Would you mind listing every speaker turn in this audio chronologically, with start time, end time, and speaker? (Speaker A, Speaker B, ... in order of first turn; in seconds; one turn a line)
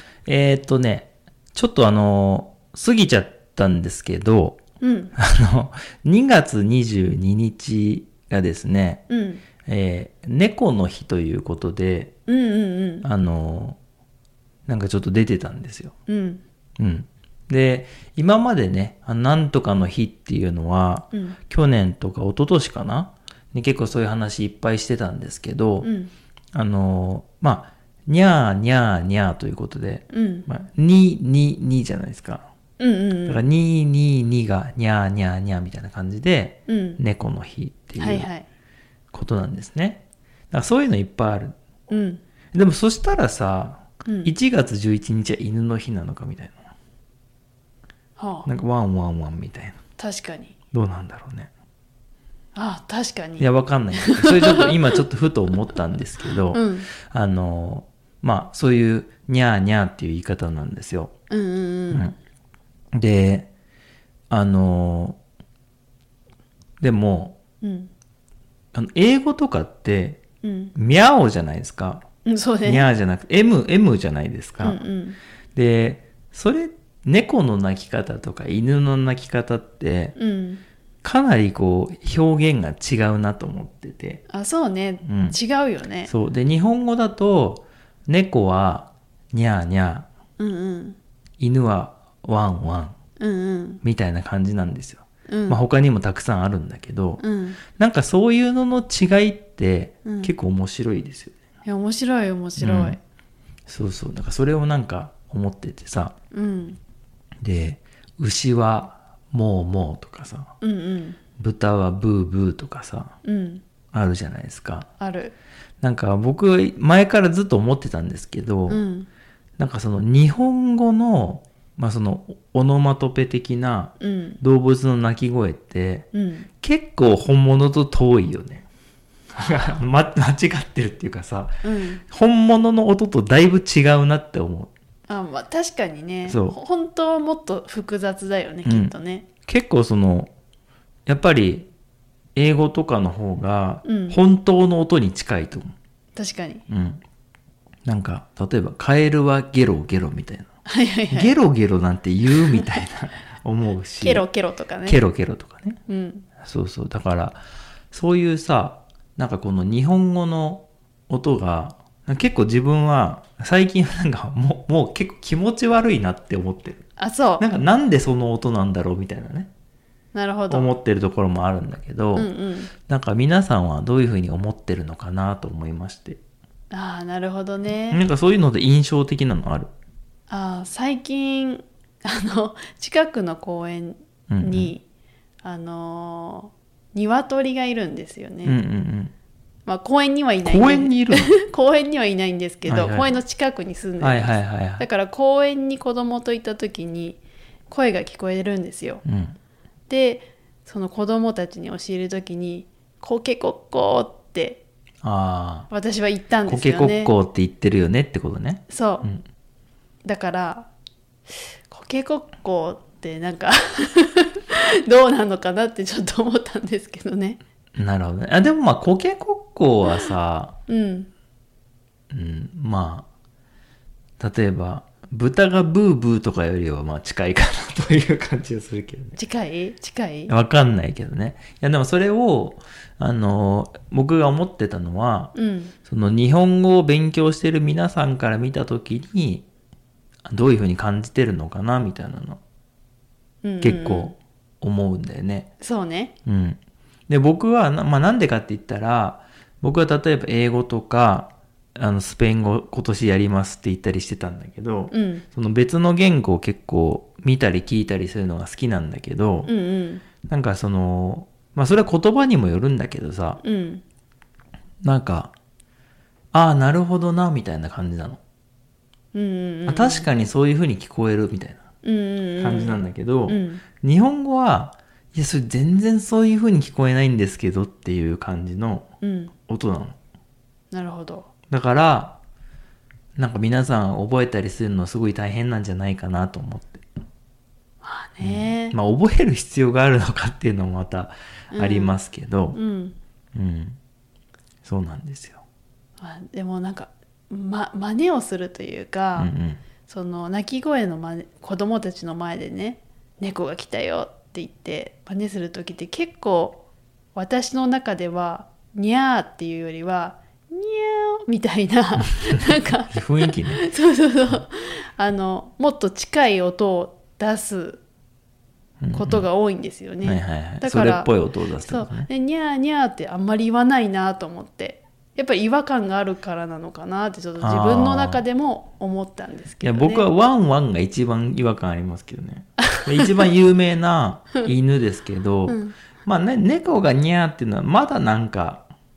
Speaker A: 0.2-4.6
Speaker B: 4.8-5.1
Speaker A: 5.2-9.0
Speaker B: 9.1-9.4
Speaker A: 9.6-12.2
Speaker B: 12.3-13.1
Speaker A: 13.0-13.8
Speaker A: 14.7-15.9
Speaker B: 16.1-16.4
Speaker A: 16.8-25.9
Speaker B: 25.8-26.1
Speaker A: 26.5-32.5
Speaker B: 30.1-30.5
Speaker B: 32.8-33.4
Speaker A: 33.2-38.3
Speaker B: 36.7-37.0
Speaker B: 38.0-38.5
Speaker A: 39.1-41.5
Speaker B: 41.9-42.2
Speaker A: 42.5-46.6
Speaker B: 44.0-44.3
Speaker B: 48.2-48.5
Speaker A: 48.5-49.8
Speaker B: 50.0-50.5
Speaker A: 50.7-51.5
Speaker B: 52.5-55.0
Speaker A: 53.4-61.1
Speaker B: 56.5-56.9
Speaker B: 61.3-62.1
Speaker A: 62.9-63.5
Speaker A: 64.3-65.2
Speaker A: 66.8-67.4
Speaker B: 67.6-67.9
Speaker A: 68.7-70.2
Speaker B: 70.4-70.7
Speaker A: 70.7-72.0
Speaker B: 72.2-72.9
Speaker A: 72.6-74.8
Speaker B: 74.6-75.2
Speaker A: 75.5-80.2
Speaker B: 80.2-80.6
Speaker A: 81.0-84.2
Speaker B: 84.3-86.1
Speaker A: 85.0-85.4
Speaker A: 86.0-90.1
Speaker B: 90.4-91.0
Speaker A: 91.4-92.9
Speaker B: 93.2-93.8
Speaker A: 93.8-101.3
Speaker B: 95.3-95.6
Speaker B: 97.2-97.6
Speaker B: 100.0-100.3
Speaker B: 101.6-103.0
Speaker A: 102.6-103.0
Speaker A: 103.7-106.1
Speaker B: 106.3-106.8
Speaker A: 107.4-110.5
Speaker B: 110.6-111.2
Speaker A: 111.4-113.1
Speaker B: 113.2-113.6
Speaker A: 113.9-114.9
Speaker B: 115.0-115.3
Speaker A: 115.8-118.8
Speaker B: 118.7-119.1
Speaker A: 119.6-126.1
Speaker B: 124.0-124.4
Speaker B: 126.1-126.5
Speaker A: 126.6-128.7
Speaker A: 129.3-134.7
Speaker B: 131.6-132.0
Speaker B: 135.1-139.3
Speaker A: 136.3-136.6
Speaker A: 138.6-138.9
Speaker A: 139.4-140.3
Speaker A: 141.1-141.7
Speaker A: 142.3-145.7
Speaker B: 143.8-144.2
Speaker B: 146.2-146.6
Speaker A: 146.7-147.0
Speaker A: 147.8-150.5
Speaker B: 150.7-151.3
Speaker A: 151.1-154.2
Speaker B: 154.0-155.0
Speaker A: 154.8-155.8
Speaker B: 155.9-156.3
Speaker A: 156.4-157.4
Speaker A: 157.9-166.8
Speaker B: 167.0-167.4
Speaker A: 167.4-169.5
Speaker B: 170.1-170.7
Speaker A: 170.5-172.3
Speaker B: 172.1-172.7
Speaker A: 172.8-176.2
Speaker B: 176.7-178.0
Speaker A: 177.9-179.7
Speaker B: 180.3-184.8
Speaker A: 184.3-184.7
Speaker B: 185.4-188.6
Speaker A: 188.4-189.1
Speaker B: 189.7-199.0
Speaker A: 190.4-191.4
Speaker A: 192.7-193.1
Speaker A: 194.0-194.8
Speaker A: 199.0-199.3
Speaker B: 199.9-204.6
Speaker A: 205.0-205.7
Speaker B: 205.7-207.1
Speaker A: 206.4-209.2
Speaker B: 208.7-209.1
Speaker B: 210.0-210.7
Speaker B: 211.3-217.4
Speaker A: 217.8-220.6
Speaker B: 220.7-221.1
Speaker A: 222.1-223.1
Speaker A: 224.2-229.2
Speaker B: 229.2-230.3
Speaker A: 230.3-235.3
Speaker B: 235.3-235.7
Speaker A: 235.8-239.5
Speaker A: 240.2-242.4
Speaker B: 243.4-244.1
Speaker A: 243.6-245.5
Speaker B: 245.6-246.1
Speaker A: 246.2-259.5
Speaker B: 254.9-255.2
Speaker B: 259.4-260.0
Speaker A: 260.2-263.4
Speaker B: 263.4-263.8
Speaker A: 264.8-265.3
Speaker A: 266.3-268.2
Speaker B: 269.1-270.1
Speaker A: 269.6-271.6
Speaker B: 271.8-273.6
Speaker A: 272.4-278.9
Speaker B: 279.0-279.3
Speaker A: 279.4-279.9
Speaker B: 280.7-281.3
Speaker A: 281.5-282.2
Speaker A: 283.2-286.8
Speaker B: 287.8-288.8
Speaker A: 288.2-292.6
Speaker B: 291.5-291.9
Speaker B: 292.5-292.9
Speaker A: 293.3-293.8
Speaker A: 294.6-295.4
Speaker B: 296.0-299.3
Speaker A: 299.2-299.6
Speaker B: 299.9-306.6
Speaker B: 307.1-317.8
Speaker A: 312.9-313.6
Speaker A: 318.8-319.3
Speaker B: 318.9-330.1
Speaker A: 320.0-322.1
Speaker A: 327.4-328.2
Speaker A: 329.6-338.6
Speaker B: 335.5-335.8